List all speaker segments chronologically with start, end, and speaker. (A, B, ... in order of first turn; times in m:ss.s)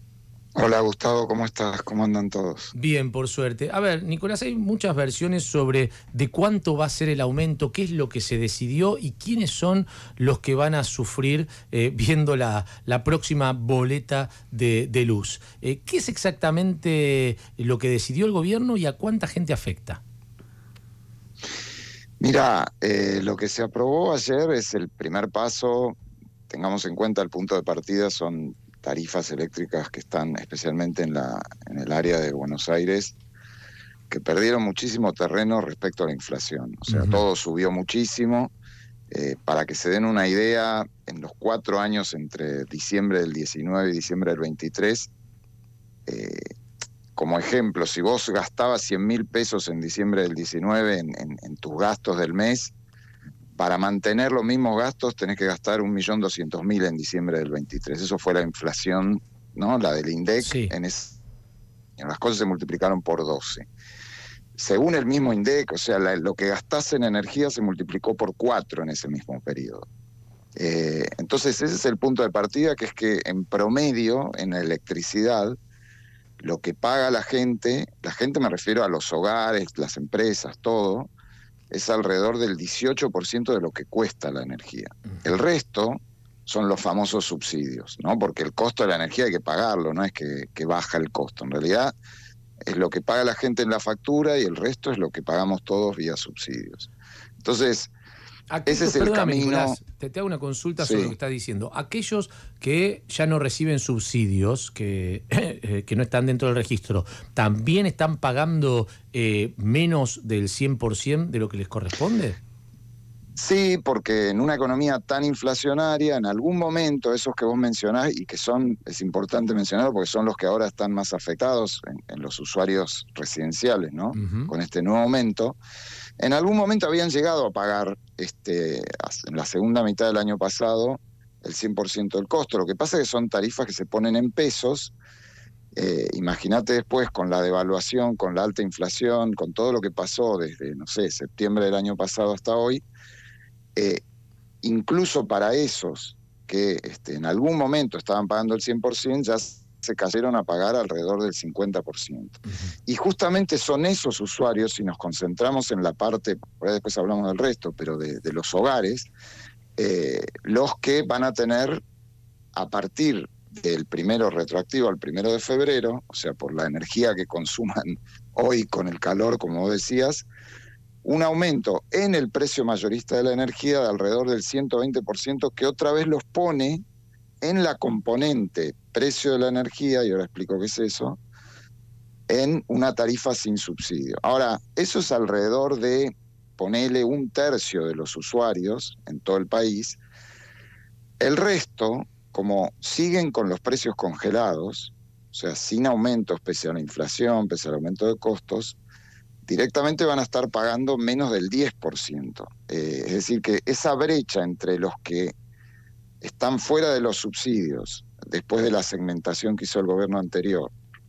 0:00.6-0:02.7 A
0:02.7-0:20.0 B
0:22.2-0:26.0 A
0:26.5-0:33.2 A
0:34.1-0:38.5 A
0:36.9-0:37.2 B
0:39.1-0:45.1 A
0:46.1-0:46.5 A
0:47.2-0:52.7 A
0:53.6-1:01.2 A
1:00.4-1:00.7 B
1:02.0-1:03.7 A
1:04.6-1:09.9 A
1:10.6-1:15.6 A
1:16.4-1:21.1 A
1:21.7-1:31.9 A
1:32.7-1:36.9 A
1:37.4-1:37.9 A
1:38.5-1:52.4 B
1:38.7-1:39.8 A
1:40.8-1:41.1 A
1:53.4-2:05.6 A
2:04.2-2:04.5 B
2:06.2-2:14.9 A
2:15.8-2:22.8 A
2:23.8-2:24.0 A
2:24.6-2:39.1 A
2:39.8-2:41.8 A
2:42.6-2:50.3 A
2:51.0-2:56.8 A
2:57.4-3:01.2 A
3:02.3-3:10.0 A
3:11.2-3:18.8 A
3:19.5-3:25.3 A
3:26.2-3:30.7 A